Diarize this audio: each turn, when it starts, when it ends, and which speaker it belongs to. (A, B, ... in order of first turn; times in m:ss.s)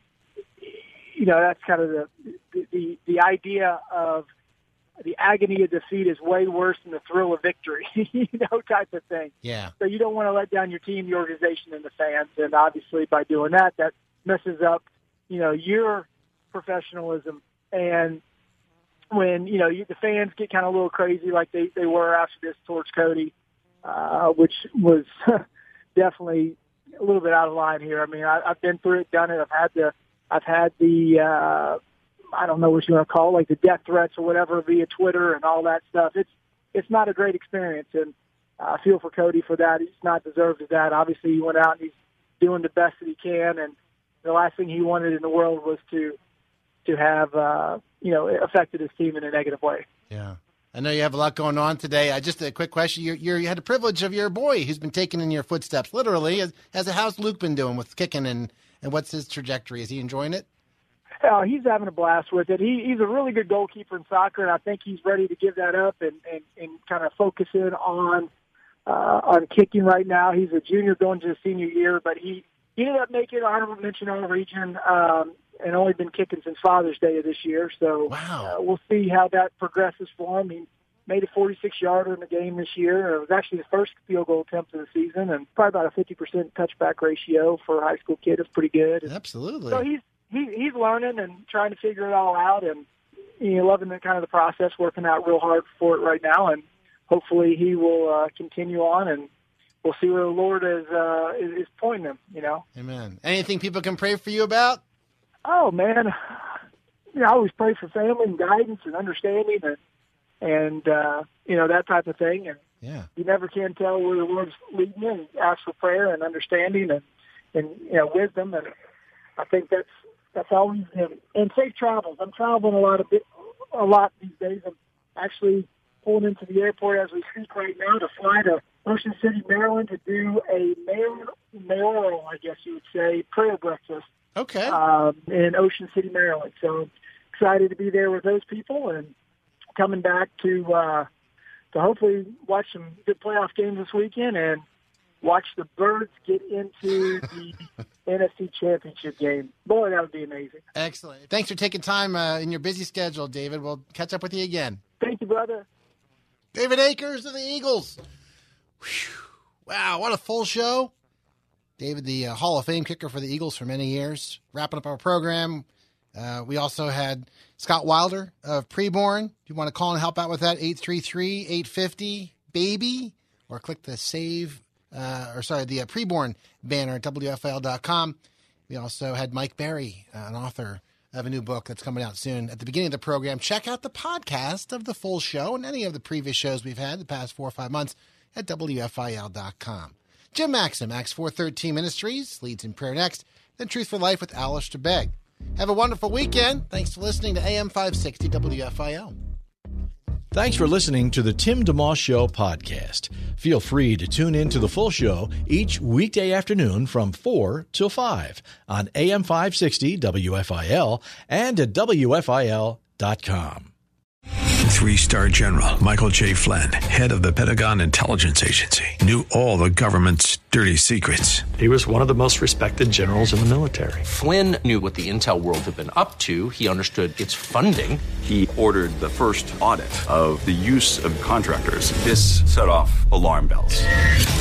0:00.6-0:04.3 A
0:05.0-0:18.2 A
0:09.4-0:09.7 B
0:19.1-0:23.3 A
0:23.8-0:25.4 A
0:26.0-0:31.8 A
0:32.3-0:46.2 A
0:46.8-0:49.8 A
0:50.1-1:00.5 B
1:01.2-1:08.3 A
1:08.9-1:29.1 A
1:18.1-1:18.5 B
1:29.0-1:29.8 B
1:29.7-1:32.8 A
1:33.4-1:39.3 A
1:39.8-1:42.6 A
1:42.8-1:44.8 B
1:45.5-1:46.6 A
1:47.1-1:49.8 A
1:50.4-1:52.6 A
1:52.8-1:53.1 B
1:53.2-1:58.7 A
1:59.4-2:14.1 A
2:14.4-2:14.8 B
2:14.7-2:19.1 A
2:19.8-2:21.1 A
2:21.7-2:24.6 A
2:25.2-2:30.6 A
2:30.7-2:34.8 B
2:35.0-2:35.7 A
2:36.5-2:38.0 B
2:38.8-2:40.9 B
2:41.8-2:58.2 B
2:58.7-3:19.1 B
3:20.3-3:33.7 C
3:34.7-3:41.5 D
3:41.6-3:44.0 E
3:44.1-3:48.1 F
3:48.1-3:53.9 G